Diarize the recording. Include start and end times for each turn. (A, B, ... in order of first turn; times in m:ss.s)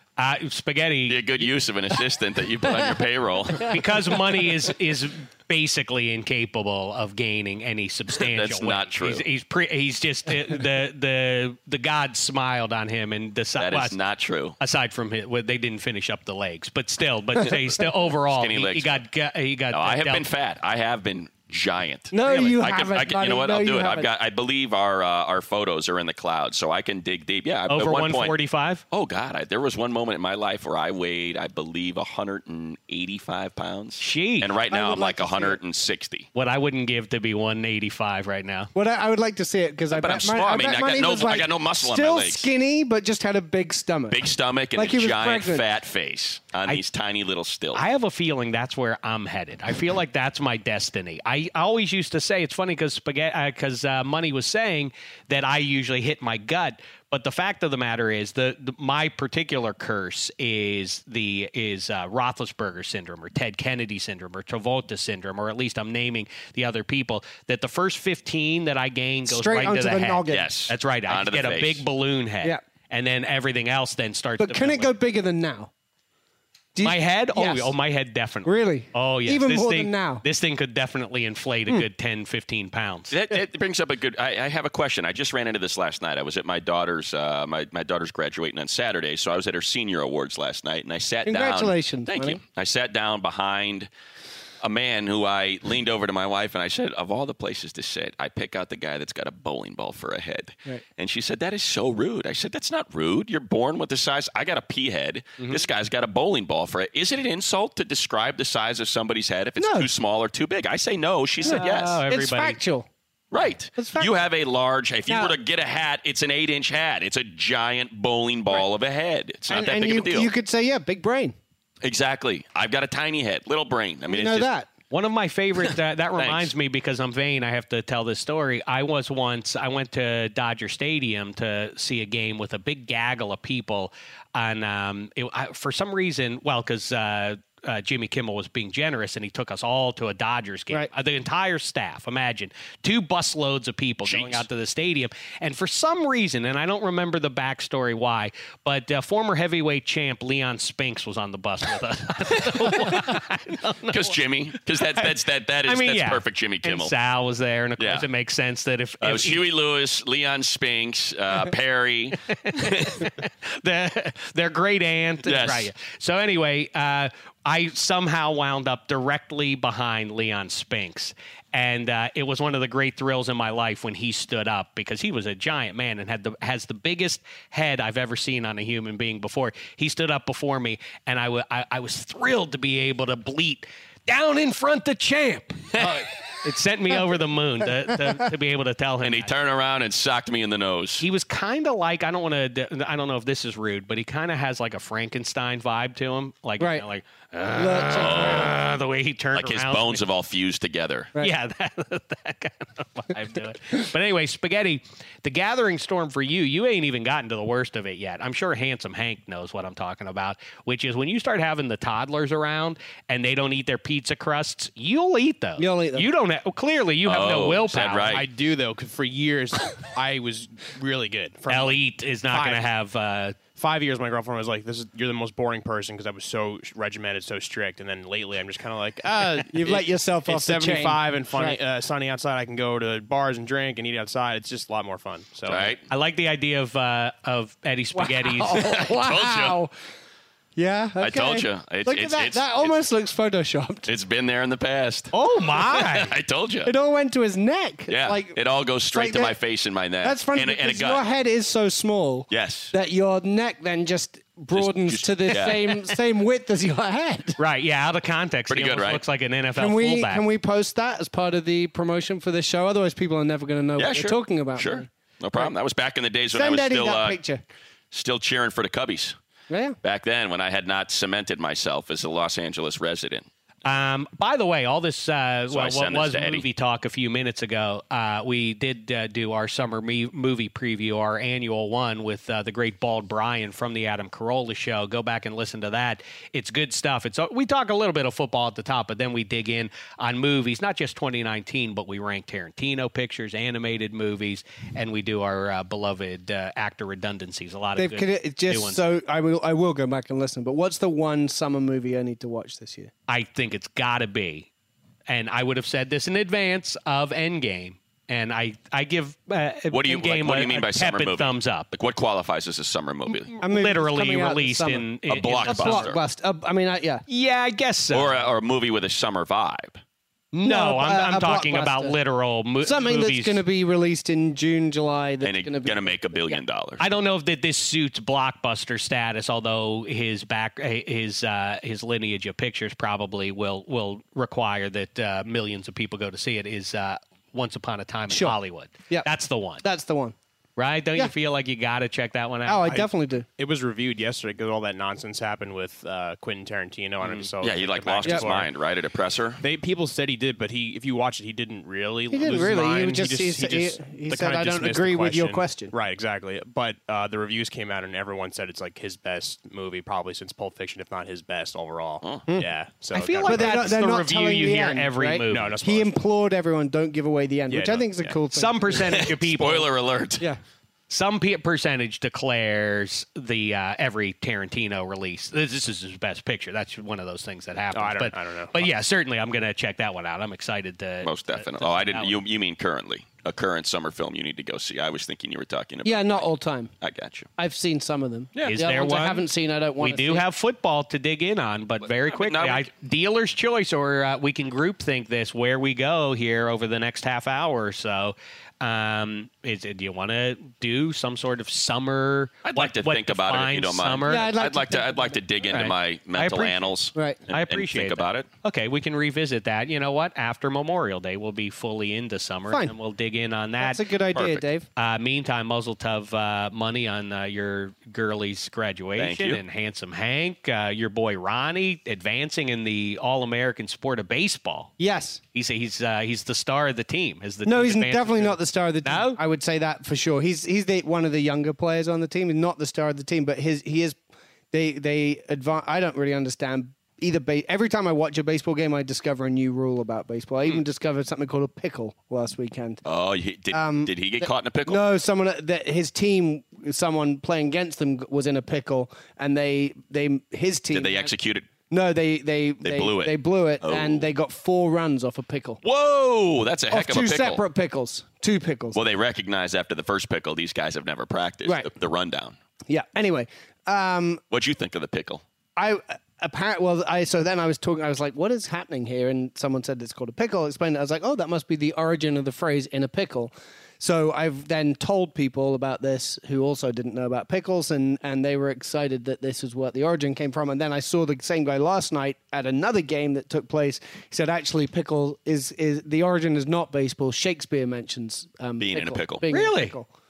0:00.2-0:01.4 A
0:01.1-0:03.8 B
0:03.6-0:14.0 A
0:08.2-0:09.2 B
0:13.6-0:14.6 B
0:14.6-0:20.2 A
0:18.3-0:19.0 B
0:19.7-0:28.4 B
0:22.1-0:24.1 C
0:27.7-0:28.8 A
0:28.9-0:36.3 B
0:34.0-0:34.5 A
0:34.7-0:35.6 C
0:36.3-0:38.7 A
0:38.7-0:45.6 C
0:39.9-0:42.5 B
0:44.1-0:47.8 B
0:47.7-1:14.9 A
1:09.3-1:10.5 C
1:10.3-1:11.8 B
1:14.4-1:15.7 C
1:16.7-1:17.7 C
1:16.8-1:23.1 A
1:18.4-1:20.2 C
1:23.1-1:33.9 B
1:31.2-1:32.4 C
1:34.6-1:52.0 B
1:49.6-1:49.9 C
1:51.4-1:52.6 A
1:51.4-1:52.9 C
1:53.3-2:00.3 B
1:53.8-1:54.1 C
1:55.1-1:55.3 C
1:59.5-2:01.3 C
2:01.8-2:04.5 B
2:04.1-2:04.7 C
2:04.9-2:34.1 A
2:06.2-2:06.5 B
2:24.0-2:24.4 B
2:32.7-2:33.0 B
2:33.9-2:36.9 B
2:35.6-2:39.4 A
2:37.8-2:38.1 B
2:39.0-2:43.1 B
2:42.4-3:09.3 A
2:45.2-2:45.7 B
3:05.7-3:06.0 B
3:09.0-3:11.0 B
3:11.0-3:20.0 A
3:16.6-3:16.8 C
3:17.5-3:18.5 C
3:17.9-3:18.5 B
3:19.3-3:21.1 B
3:21.2-3:38.2 A
3:35.6-3:36.1 C
3:37.0-3:38.3 B
3:38.1-3:42.6 D
3:41.5-3:43.4 A
3:43.6-3:55.7 D
3:49.5-3:51.6 C
3:55.4-3:55.8 B
3:55.9-3:58.6 A
3:58.0-3:59.7 C
3:58.5-3:59.6 B
4:00.6-4:03.9 C
4:01.0-4:02.8 B
4:03.8-4:05.1 B
4:05.1-4:06.1 A
4:05.7-4:06.7 B
4:06.6-4:08.4 C
4:07.9-4:11.0 B
4:08.9-4:09.4 C
4:10.0-4:17.4 C
4:12.3-4:12.7 B
4:14.5-4:15.9 B
4:17.4-4:20.2 A
4:18.5-4:19.0 B
4:19.6-4:25.5 C
4:23.8-4:27.2 B
4:26.3-4:27.4 C
4:27.9-4:29.2 B
4:29.5-4:29.8 C
4:29.8-4:33.2 B
4:33.6-4:58.8 A
4:35.5-4:36.4 B
4:57.8-5:02.9 C
5:03.1-5:04.5 A
5:05.1-5:11.7 A
5:09.7-5:13.4 B
5:13.4-5:15.9 A
5:13.4-5:14.9 C
5:15.1-5:16.0 B
5:15.4-5:17.0 C
5:17.1-5:18.1 A
5:17.9-5:19.8 B
5:20.3-5:23.4 A
5:20.4-5:22.0 C
5:22.6-5:26.4 C
5:25.2-5:26.8 B
5:26.8-5:39.6 A
5:38.1-5:38.4 C
5:39.6-5:40.1 C
5:40.6-5:42.7 A
5:42.4-5:43.2 C
5:42.7-5:48.5 D
5:47.4-5:49.4 B
5:49.4-6:03.8 D
5:52.1-5:55.7 C
6:02.9-6:05.6 A
6:03.2-6:09.1 C
6:05.3-6:05.9 D
6:07.5-6:08.2 D
6:08.3-6:09.7 A
6:08.9-6:10.3 B
6:10.9-6:22.2 A
6:17.7-6:18.7 D
6:21.0-6:26.3 B
6:25.8-6:26.7 C
6:26.8-6:27.3 B
6:27.4-6:30.2 C
6:28.4-6:29.2 A
6:29.8-6:44.3 A
6:31.8-6:32.7 B
6:42.4-6:48.3 B
6:44.1-6:45.2 C
6:45.5-6:46.8 A
6:47.3-6:53.8 A
6:52.5-6:52.7 C
6:53.6-6:54.7 C
6:54.1-6:54.4 B
6:54.8-7:04.7 A
6:59.0-6:59.4 B
7:04.8-7:05.2 C
7:05.3-7:09.2 A
7:07.4-7:14.0 C
7:14.5-7:22.8 C
7:22.8-7:24.8 B
7:23.5-7:31.1 C
7:30.7-7:31.5 B
7:31.7-7:35.6 C
7:32.6-7:34.1 B
7:35.6-7:37.4 B
7:36.7-7:38.8 C
7:38.7-7:42.3 B
7:42.7-7:44.2 C
7:44.3-7:45.2 B
7:45.6-8:09.9 C
8:08.6-8:09.2 B
8:09.3-8:09.8 A